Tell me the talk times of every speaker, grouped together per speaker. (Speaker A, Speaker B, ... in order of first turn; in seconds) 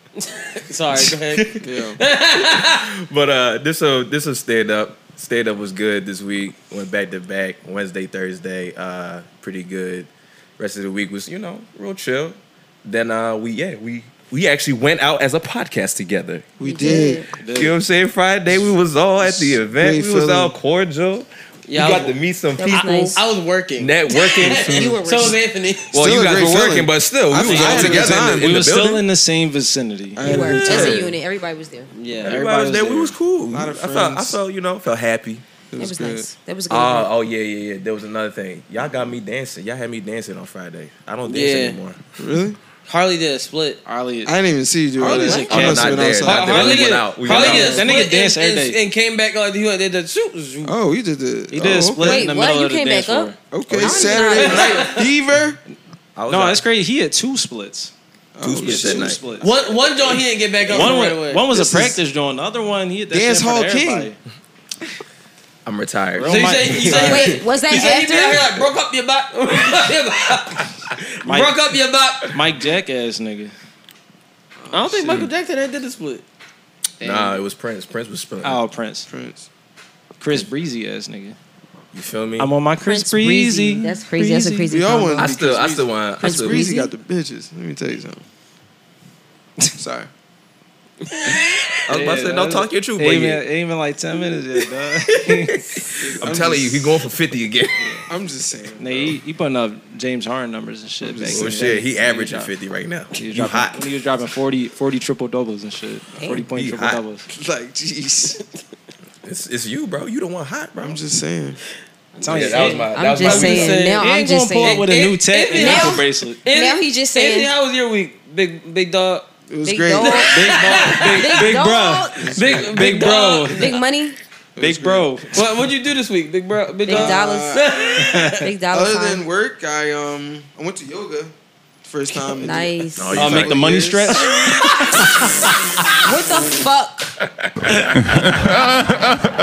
Speaker A: 0.2-2.8, 21.7-22.2, 22.7-25.9, 27.4-27.9, 31.9-32.4, 41.2-41.8, 42.9-43.8, 46.5-50.7, 54.1-55.0, 59.4-61.5, 66.3-72.3, 74.7-76.2, 91.1-91.7, 113.2-114.1, 114.6-119.2, 120.0-121.5, 122.3-123.8, 125.3-128.4
Speaker B: 1.1-1.6, 2.4-16.5, 17.5-23.2, 23.8-25.2, 25.9-29.0, 32.2-35.4, 36.7-42.0, 45.5-47.9, 56.1-56.6, 58.4-59.2, 65.7-67.1, 77.0-78.6, 81.9-82.5, 85.2-86.6, 91.9-93.4, 96.2-97.8, 101.3-103.8, 106.5-107.0, 109.2-111.0, 112.2-113.8, 133.0-133.9, 134.8-135.4, 137.2-138.3
Speaker C: 1.6-2.0, 16.6-17.2, 19.2-20.5, 25.9-28.6, 30.1-31.1, 33.5-34.4, 35.7-36.3, 42.2-42.6, 44.2-46.9, 50.6-52.3, 53.5-55.6, 58.4-59.2, 61.5-62.0, 63.1-64.1, 74.6-75.1, 79.1-79.5, 84.7-88.2, 89.8-90.1, 96.0-97.0, 98.0-99.2, 101.0-101.8, 107.3-108.4, 110.8-111.6, 119.5-120.3, 122.2-122.7, 124.6-125.2, 126.9-127.7, 128.7-134.3
Speaker D: 16.6-17.3, 22.6-23.2, 24.4-25.4, 30.2-31.9, 35.8-37.1, 45.2-45.7, 52.0-54.9, 67.0-68.5, 82.8-85.4, 86.2-86.9, 106.2-106.5, 112.2-115.0, 115.5-117.5, 119.6-122.6, 123.4-124.2, 126.8-127.6, 128.4-129.2, 132.4-133.4, 134.9-135.5, 136.0-137.1
Speaker E: 16.8-17.8, 27.5-31.0, 32.2-33.1, 43.8-44.3, 45.0-48.8, 51.5-54.0, 56.3-57.9, 58.6-59.5, 60.7-64.2, 66.2-67.3, 71.2-71.6, 72.3-73.5, 77.0-77.4, 78.4-79.1, 80.2-81.4, 82.4-84.7, 91.9-95.6, 98.8-102.5, 103.2-107.2, 112.2-116.4, 120.3-123.7, 124.6-125.4, 133.1-134.7